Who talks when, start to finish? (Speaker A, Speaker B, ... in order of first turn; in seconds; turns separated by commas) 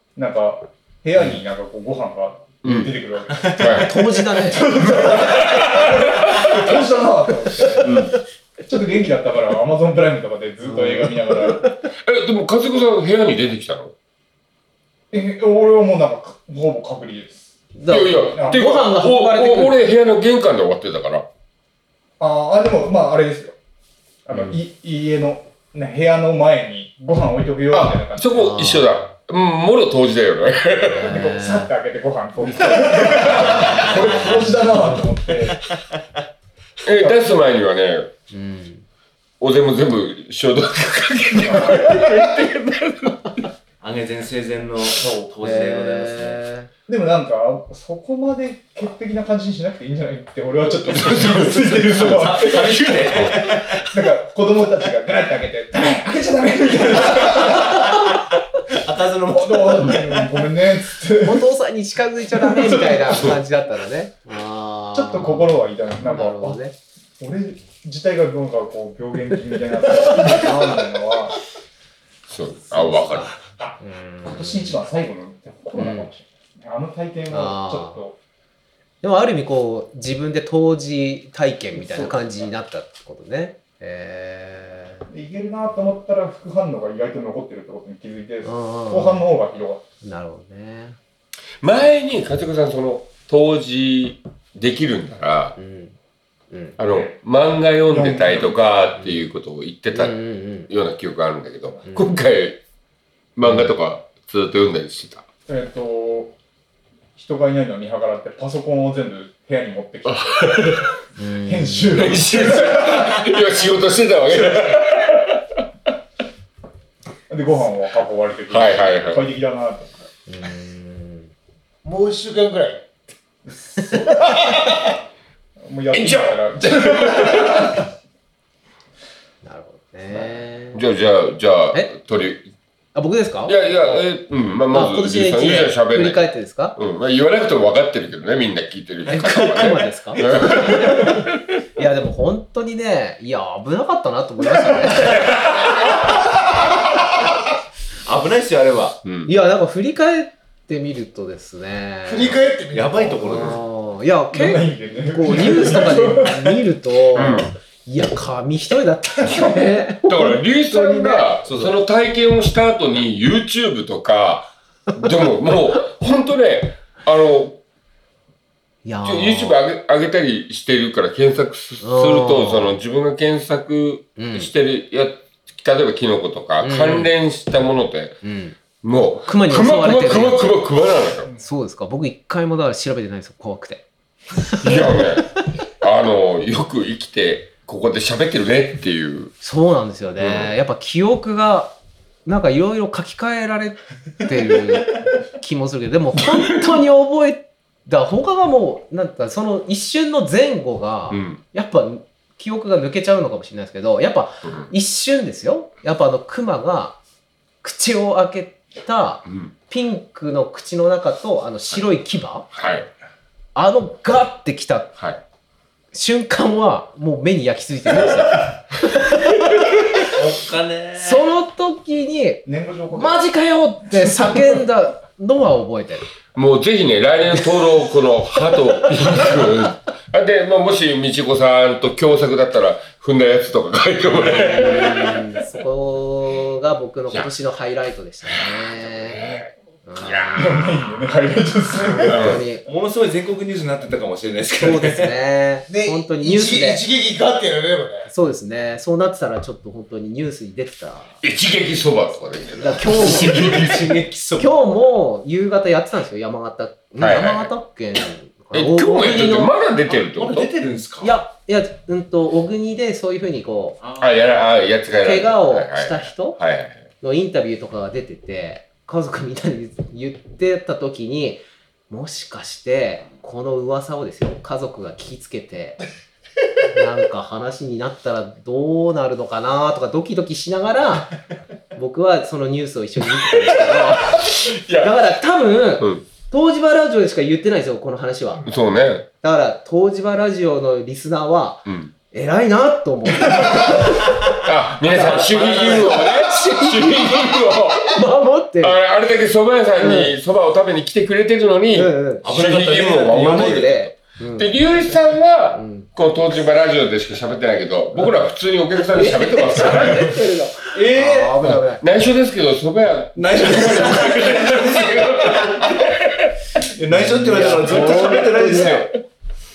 Speaker A: 0.2-8.0, Speaker B: 2.6-3.0, Speaker B: 3.5-3.9, Speaker C: 3.7-4.7, Speaker B: 4.8-6.8, Speaker B: 7.8-8.1, Speaker A: 8.7-11.7, Speaker C: 10.6-11.7, Speaker B: 12.0-13.9, Speaker A: 15.1-17.5, Speaker C: 17.8-19.8, Speaker B: 17.9-21.3, Speaker A: 18.3-18.7, Speaker A: 22.2-23.6, Speaker A: 24.3-28.5, Speaker B: 27.7-31.2, Speaker C: 28.3-29.1, Speaker C: 30.9-31.7, Speaker A: 31.0-35.6, Speaker B: 33.4-33.9, Speaker C: 33.8-34.5, Speaker B: 36.8-38.1, Speaker A: 37.0-37.3, Speaker C: 38.3-38.9, Speaker B: 39.4-43.4, Speaker D: 43.8-46.4, Speaker A: 45.0-45.4, Speaker C: 45.4-46.7, Speaker A: 46.9-58.0, Speaker D: 50.9-54.0, Speaker D: 58.7-60.3, Speaker A: 59.3-61.5, Speaker C: 61.2-66.8, Speaker A: 62.4-63.4, Speaker A: 64.9-66.6, Speaker A: 67.2-71.3, Speaker C: 70.2-70.6, Speaker B: 72.3-73.4, Speaker C: 72.7-74.8, Speaker A: 73.6-78.2, Speaker C: 75.8-76.1, Speaker C: 77.3-78.0, Speaker C: 79.0-85.1, Speaker A: 81.7-82.5, Speaker A: 85.1-89.8, Speaker C: 88.4-89.3, Speaker C: 90.0-91.0, Speaker B: 91.6-95.6, Speaker C: 95.6-96.0, Speaker C: 96.5-96.8, Speaker B: 96.8-102.6, Speaker A: 97.9-98.6, Speaker C: 99.0-99.3, Speaker C: 99.9-100.7, Speaker C: 101.8-102.2, Speaker B: 103.4-105.3, Speaker A: 105.5-106.3, Speaker A: 107.2-110.7, Speaker B: 110.0-110.9, Speaker C: 111.2-112.1, Speaker A: 111.4-113.4, Speaker B: 111.9-115.4, Speaker A: 117.3-120.0, Speaker B: 118.5-119.3, Speaker C: 120.3-121.3, Speaker E: 121.8-122.8, Speaker A: 123.5-124.2, Speaker A: 125.6-127.8, Speaker B: 125.9-127.8, Speaker C: 129.4-130.8, Speaker B: 130.7-132.5, Speaker C: 132.9-133.7, Speaker B: 133.5-141.3, Speaker C: 134.7-136.8, Speaker C: 139.1-141.2, Speaker C: 141.8-145.3, Speaker D: 148.1-149.0, Speaker B: 149.1-149.3, Speaker C: 149.3-152.4, Speaker E: 152.0-153.6, Speaker D: 152.7-153.6, Speaker C: 153.2-161.3, Speaker A: 154.3-156.6, Speaker B: 157.1-157.5, Speaker B: 160.0-167.6, Speaker D: 161.5-161.8, Speaker C: 168.8-169.6, Speaker B: 169.0-178.2, Speaker C: 171.8-172.8, Speaker C: 174.2-174.5, Speaker C: 176.6-177.1, Speaker C: 178.2-178.6, Speaker B: 178.8-181.3, Speaker C: 179.2-180.7, Speaker C: 181.4-183.8, Speaker C: 184.4-185.0, Speaker B: 184.6-185.3, Speaker B: 185.8-189.3, Speaker C: 189.4-207.0, Speaker B: 190.2-190.5, Speaker B: 196.4-196.7, Speaker B: 201.1-201.4, Speaker B: 204.4-204.7, Speaker C: 207.6-212.5, Speaker B: 209.3-209.5, Speaker B: 212.5-212.9, Speaker C: 213.6-214.9, Speaker C: 215.9-220.1, Speaker D: 220.1-221.3, Speaker C: 221.0-226.1, Speaker A: 222.5-223.3, Speaker A: 224.0-224.4, Speaker B: 226.3-235.4, Speaker C: 234.2-239.2, Speaker B: 238.3-240.6, Speaker C: 239.9-240.7, Speaker A: 240.4-242.3, Speaker B: 242.0-242.4, Speaker C: 242.0-242.7, Speaker D: 242.7-245.2, Speaker C: 244.6-246.8, Speaker E: 245.7-248.1, Speaker C: 248.1-251.2, Speaker B: 251.2-253.9, Speaker C: 252.6-253.7, Speaker D: 252.9-254.6, Speaker C: 254.4-259.5, Speaker B: 257.0-257.5, Speaker B: 258.5-260.5, Speaker D: 260.0-261.2, Speaker C: 261.0-263.8, Speaker D: 263.8-264.6, Speaker B: 264.0-266.9, Speaker C: 265.0-266.4, Speaker C: 267.0-275.8, Speaker C: 276.7-281.1, Speaker C: 281.7-288.5, Speaker B: 283.2-285.0, Speaker B: 285.8-286.1, Speaker B: 288.4-289.1, Speaker C: 289.2-298.8, Speaker B: 291.7-291.9, Speaker B: 294.4-298.0, Speaker D: 295.2-296.0, Speaker B: 298.6-310.2, Speaker C: 299.8-300.1, Speaker C: 301.7-302.2, Speaker D: 302.2-303.9, Speaker C: 303.2-304.5, Speaker C: 305.5-305.9, Speaker C: 308.9-311.8, Speaker A: 310.8-311.4, Speaker B: 311.4-316.3, Speaker D: 313.1-315.7, Speaker D: 316.6-318.9, Speaker C: 317.2-318.9, Speaker B: 318.5-318.9